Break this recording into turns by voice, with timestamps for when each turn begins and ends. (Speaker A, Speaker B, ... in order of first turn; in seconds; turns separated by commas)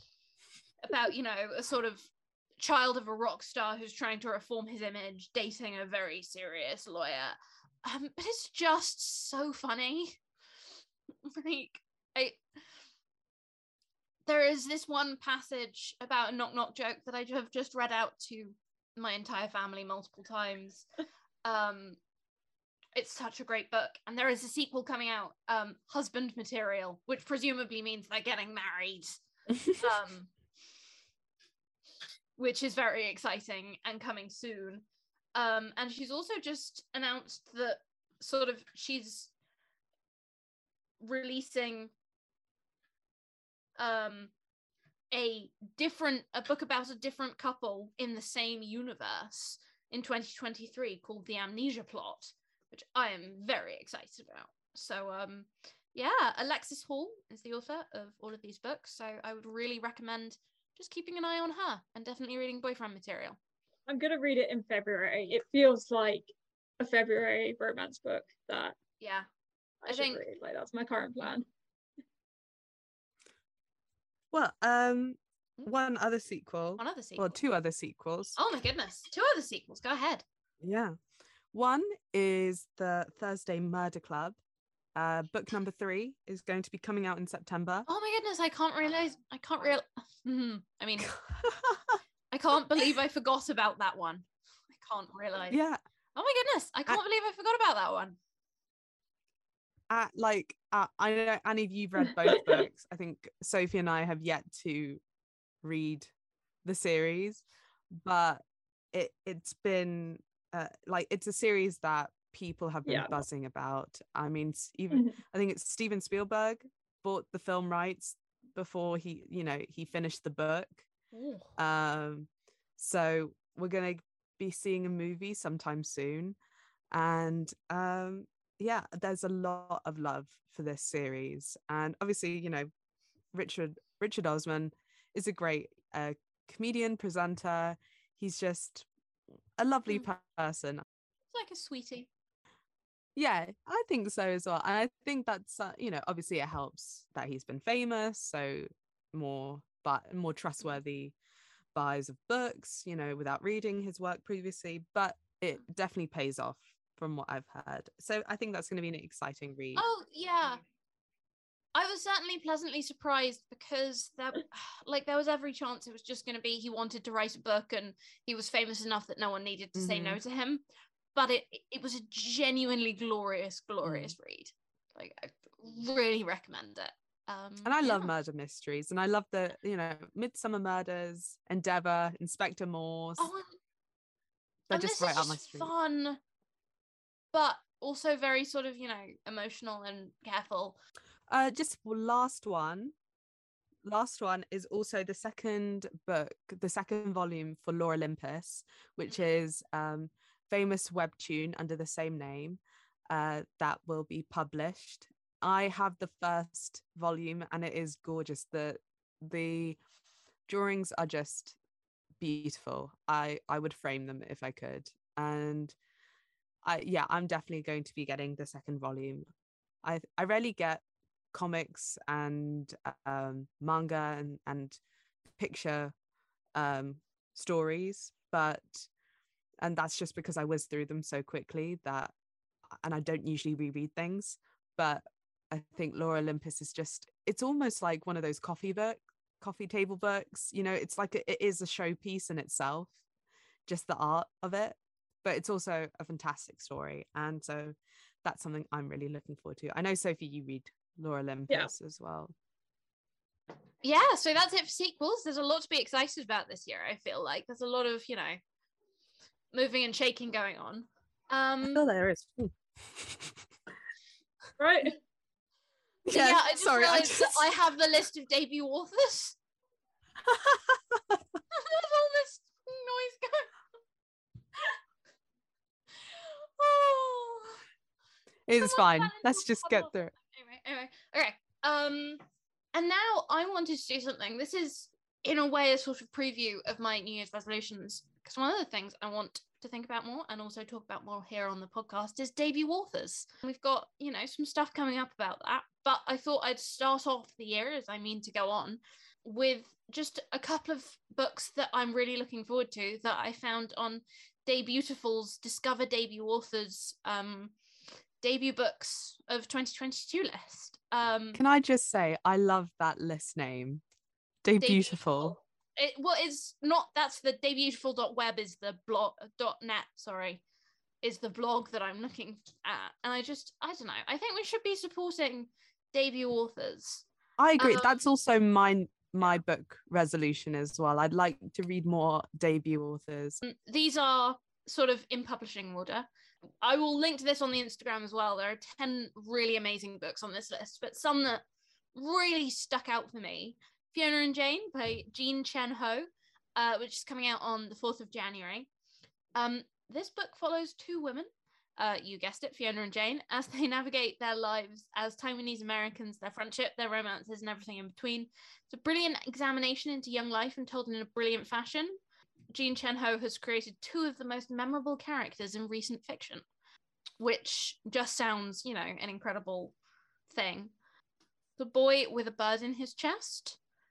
Speaker A: 0.8-10.2, Speaker A: 11.3-12.4, Speaker A: 14.3-20.9, Speaker A: 21.4-22.0, Speaker A: 22.9-30.3, Speaker A: 32.4-39.3, Speaker A: 41.0-41.9, Speaker A: 43.8-44.3, Speaker A: 45.1-63.4, Speaker B: 63.9-68.8, Speaker A: 69.0-69.3, Speaker B: 69.8-71.5, Speaker A: 69.9-70.2, Speaker C: 74.3-78.4, Speaker A: 76.8-77.4, Speaker A: 78.4-80.2, Speaker C: 80.6-81.0, Speaker C: 81.5-84.4, Speaker C: 85.0-87.9, Speaker A: 87.9-91.2, Speaker C: 91.1-92.0, Speaker A: 92.3-95.6, Speaker C: 95.5-95.8, Speaker A: 96.2-98.2, Speaker C: 99.9-105.0, Speaker C: 105.6-106.1, Speaker C: 106.6-120.9, Speaker B: 112.9-113.2, Speaker A: 121.1-121.5, Speaker C: 121.6-126.4, Speaker C: 126.9-132.7, Speaker C: 133.3-138.9, Speaker C: 139.6-140.8, Speaker A: 141.3-142.1, Speaker C: 143.2-151.2, Speaker C: 151.8-159.8, Speaker A: 159.8-160.6, Speaker A: 161.8-170.6, Speaker C: 169.8-170.2, Speaker A: 171.2-178.1, Speaker C: 173.8-174.2, Speaker C: 177.6-183.3, Speaker A: 183.2-183.5, Speaker A: 184.7-186.2, Speaker C: 184.7-185.7, Speaker A: 187.3-190.8, Speaker C: 191.3-192.9, Speaker C: 193.8-209.8, Speaker C: 210.5-211.6, Speaker C: 212.2-215.8, Speaker C: 216.6-219.3, Speaker C: 219.8-224.8, Speaker C: 225.4-225.9, Speaker C: 226.6-228.9, Speaker C: 229.6-232.1, Speaker C: 232.7-243.0, Speaker C: 243.7-252.3, Speaker A: 253.8-258.4, Speaker A: 259.5-261.9, Speaker C: 261.6-263.4, Speaker B: 264.6-265.0, Speaker C: 266.1-267.5, Speaker A: 266.1-269.4, Speaker C: 270.2-271.2, Speaker A: 271.5-273.5, Speaker A: 276.1-277.6, Speaker C: 278.5-280.1, Speaker A: 278.6-282.2, Speaker A: 282.7-307.5, Speaker A: 308.2-311.4, Speaker C: 311.4-313.8, Speaker C: 314.4-315.4, Speaker A: 314.6-320.4, Speaker A: 321.0-327.1, Speaker C: 327.4-333.4, Speaker A: 327.6-328.0, Speaker A: 333.4-336.1, Speaker A: 336.6-341.4, Speaker A: 341.9-348.7, Speaker A: 349.4-362.0, Speaker A: 362.5-366.4, Speaker A: 367.2-369.8, Speaker A: 370.3-370.7, Speaker A: 371.6-373.6